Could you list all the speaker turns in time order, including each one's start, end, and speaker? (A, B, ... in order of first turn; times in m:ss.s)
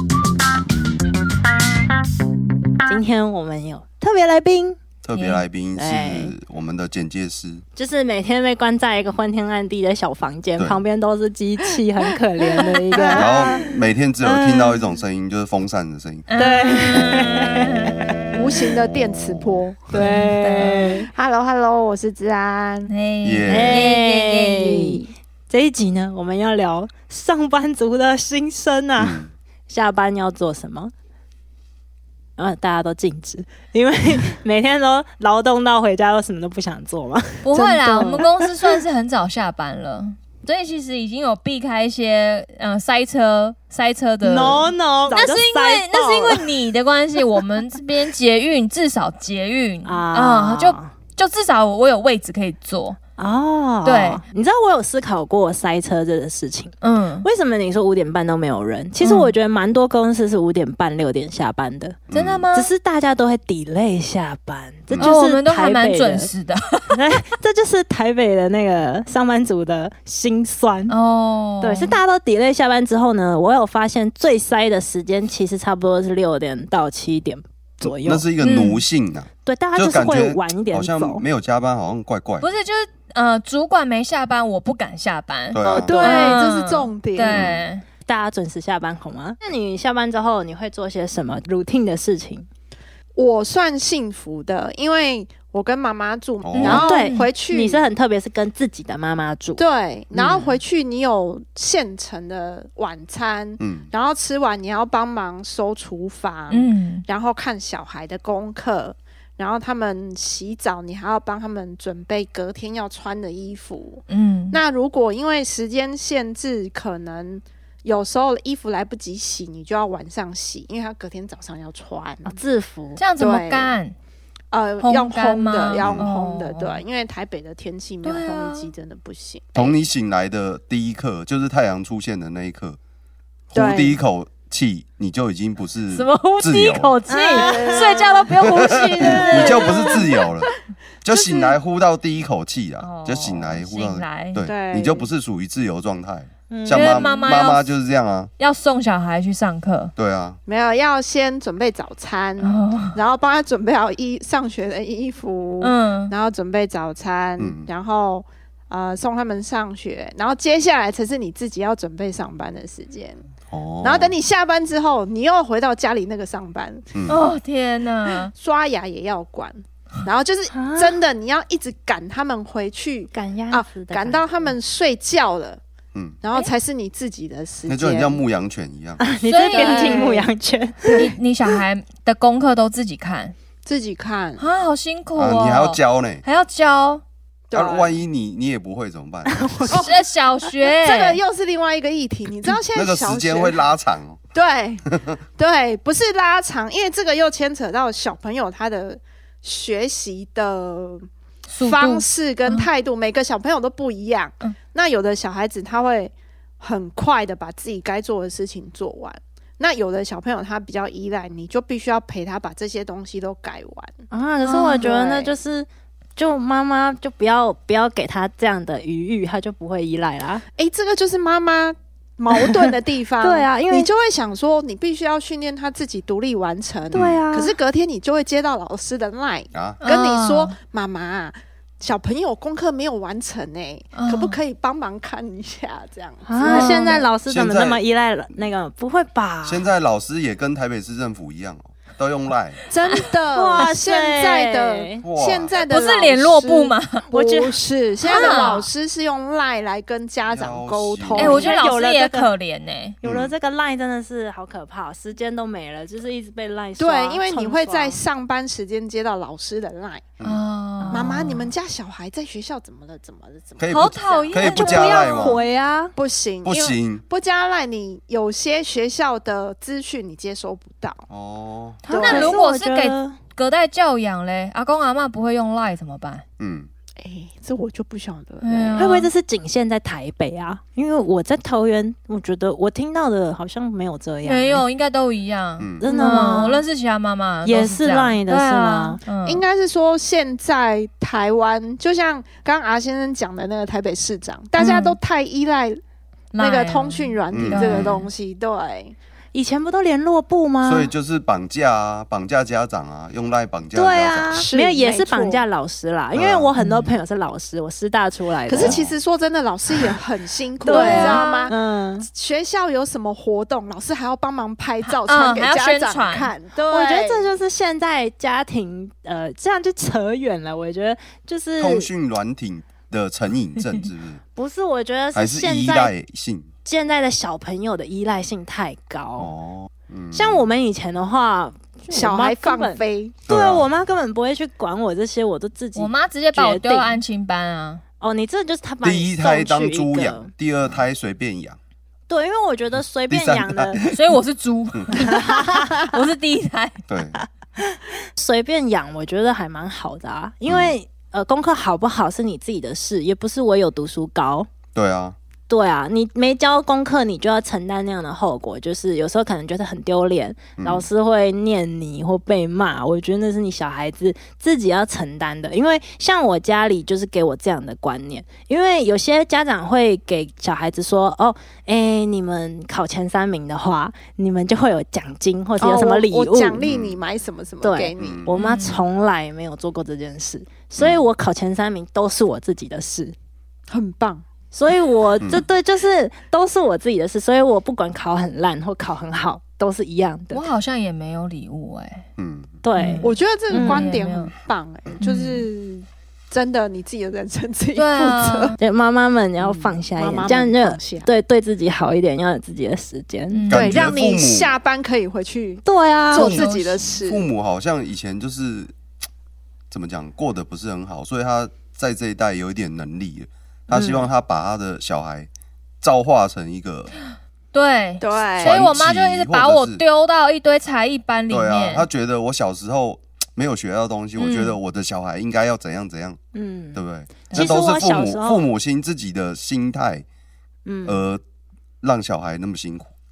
0:02.8-0:04.8 A
0:05.0-0:07.6 B
0:05.1-0:05.4 C
0:05.8-0:06.4 A
0:07.8-0:13.7 A
0:12.4-0:13.6 D
0:13.1-0:16.3 B
0:16.3-0:17.6 C
0:16.4-0:17.9 A
0:16.8-0:17.2 D
0:17.9-0:18.2 B
0:18.3-0:20.0 D
0:19.9-0:21.1 A
0:19.9-0:21.0 C
0:20.5-0:22.9 D
0:22.9-0:25.0 C
0:23.2-0:23.9 B
0:23.5-0:30.9 A
0:29.0-0:29.3 B
0:32.4-0:38.3 A
0:37.4-0:53.0 C
0:44.2-0:46.5 A
0:49.8-0:50.9 A
0:53.2-1:02.0 A
0:53.8-0:54.2 C
0:56.8-0:57.3 C
0:59.0-0:59.3 C
1:02.1-1:02.4 B
1:02.1-1:02.7 C
1:02.5-1:06.3 A
1:05.0-1:07.0 C
1:06.9-1:10.9 A
1:10.9-1:12.0 C
1:11.6-1:18.2 A
1:17.8-1:22.5 B
1:18.4-1:18.8 C
1:19.4-1:21.2 A
1:22.4-1:27.8 C
1:25.5-1:26.3 B
1:25.6-1:27.4 D
1:26.0-1:26.4 A
1:27.3-1:27.6 B
1:28.0-1:32.5 A
1:33.2-1:37.8 D
1:36.4-1:36.9 B
1:36.6-1:39.6 A
1:36.6-1:37.3 C
1:39.6-2:02.4 D
1:43.6-1:43.9 B
1:46.5-1:47.0 C
1:54.1-1:54.6 C
2:02.2-2:03.0 A
2:03.0-2:03.9 C
2:03.2-2:03.8 D
2:04.5-2:09.8 D
2:04.8-2:06.8 C
2:05.8-2:06.1 B
2:08.0-2:08.7 C
2:09.5-2:12.8 B
2:13.5-2:17.0 B
2:13.5-2:14.0 D
2:15.9-2:20.0 C
2:17.1-2:20.0 A
2:17.3-2:18.4 D
2:18.4-2:20.5 B
2:19.2-2:20.2 D
2:21.0-2:28.3 B
2:21.1-2:21.6 D
2:22.8-2:24.4 C
2:24.4-2:25.1 D
2:26.5-2:27.1 A
2:26.7-2:27.7 C
2:28.4-2:29.9 C
2:30.0-2:30.4 B
2:30.4-2:43.2 D
2:32.4-2:33.0 C
2:35.6-2:36.1 C
2:37.4-2:37.7 B
2:43.5-2:44.1 B
2:43.8-2:46.9 D
2:46.9-2:47.2 B
2:47.1-2:48.3 C
2:48.2-2:55.6 D
2:50.5-2:51.0 A
2:53.1-2:54.5 A
2:55.9-2:56.2 B
2:56.2-2:58.2 D
2:57.7-2:59.0 B
2:59.0-3:01.1 A
2:59.2-3:00.2 C
2:59.5-3:00.3 D
3:00.9-3:03.3 C
3:03.6-3:04.4 D
3:04.4-3:07.0 C
3:05.2-3:06.2 B
3:07.5-3:08.0 D
3:07.5-3:09.4 B
3:09.3-3:09.8 A
3:09.6-3:10.0 D
3:09.7-3:11.2 C
3:10.8-3:13.6 D
3:12.7-3:14.2 B
3:14.3-3:21.0 D
3:14.9-3:15.2 B
3:21.5-3:22.7 C
3:21.6-3:34.0 D
3:34.1-3:40.4 A
3:34.4-3:34.9 C
3:34.8-3:35.4 D
3:40.6-3:57.1 D
3:43.2-3:43.9 A
3:46.9-3:47.2 B
3:46.9-3:47.6 A
3:49.5-3:49.8 B
3:49.8-3:50.5 C
3:53.9-3:54.4 C
3:56.2-3:59.6 A
3:56.4-3:57.0 C
3:57.3-3:57.8 B
3:59.4-4:02.6 B
4:02.7-4:11.5 D
4:03.3-4:05.0 A
4:05.0-4:05.5 B
4:05.7-4:07.0 C
4:07.1-4:07.6 A
4:08.0-4:08.7 C
4:08.1-4:08.6 A
4:10.2-4:11.4 B
4:11.2-4:13.0 C
4:11.2-4:12.3 A
4:13.0-4:18.0 A
4:13.0-4:13.3 B
4:16.8-4:20.0 D
4:20.2-4:21.5 C
4:20.8-4:21.4 A
4:20.9-4:25.3 D
4:23.6-4:25.4 B
4:23.7-4:25.3 C
4:24.4-4:25.9 A
4:26.0-4:31.0 D
4:26.4-4:27.0 B
4:31.1-4:31.8 B
4:31.8-4:33.2 A
4:31.9-4:32.4 D
4:31.9-4:36.2 C
4:36.4-4:36.7 B
4:37.0-4:38.9 D
4:38.4-4:39.1 C
4:38.7-4:44.6 A
4:44.2-4:49.4 C
4:45.6-4:45.8 B
4:45.8-4:46.6 A
4:47.4-4:49.0 A
4:49.2-4:55.8 D
4:54.6-4:55.0 C
4:56.3-4:58.1 C
4:56.4-4:58.9 D
4:57.3-4:57.9 B
4:59.3-5:00.9 A
5:00.6-5:04.4 B
5:03.7-5:08.8 A
5:04.3-5:05.4 D
5:06.1-5:06.5 B
5:06.6-5:06.9 C
5:08.5-5:11.6 D
5:08.6-5:09.0 B
5:10.6-5:12.1 A
5:10.7-5:11.3 C
5:12.1-5:17.3 D
5:14.8-5:16.3 C
5:16.7-5:21.9 A
5:21.6-5:24.2 B
5:24.4-5:25.9 A
5:25.1-5:26.5 B
5:26.6-5:29.3 A
5:29.2-5:30.4 B
5:30.1-5:37.0 A
5:31.9-5:33.2 D
5:33.3-5:33.7 B
5:35.7-5:37.8 C
5:38.0-5:40.3 A
5:38.8-5:41.6 B
5:42.1-5:43.8 A
5:43.1-5:44.0 B
5:43.9-5:46.8 C
5:45.0-5:45.9 A
5:46.9-5:47.2 B
5:47.6-5:54.5 A
5:50.5-5:50.7 B
5:54.7-5:55.2 B
5:55.5-6:16.6 A
6:00.6-6:00.9 B
6:15.6-6:18.3 D
6:16.6-6:17.0 B
6:17.6-6:23.1 A
6:18.0-6:18.3 B
6:18.3-6:18.8 C
6:23.7-6:24.2 D
6:24.5-6:30.5 A
6:30.3-6:32.0 C
6:32.2-6:32.5 B
6:32.6-6:33.9 A
6:32.8-6:34.3 C
6:33.0-6:38.6 D
6:35.0-6:35.5 C
6:37.8-6:38.6 C
6:38.6-6:43.4 A
6:39.4-6:41.1 D
6:43.3-6:44.0 C
6:43.5-6:44.5 B
6:43.5-6:47.3 D
6:45.6-6:46.4 A
6:46.1-6:47.0 C
6:47.0-6:48.7 B
6:49.7-6:55.3 B
6:53.7-6:54.1 A
6:55.8-6:56.9 B
6:57.5-7:01.9 C
6:58.0-6:58.6 D
6:58.4-6:59.8 B
7:01.3-7:06.2 B
7:04.2-7:04.6 C
7:06.3-7:06.8 A
7:06.7-7:10.0 B
7:07.3-7:08.4 A
7:10.6-7:11.0 A
7:10.8-7:11.2 B
7:11.8-7:12.9 B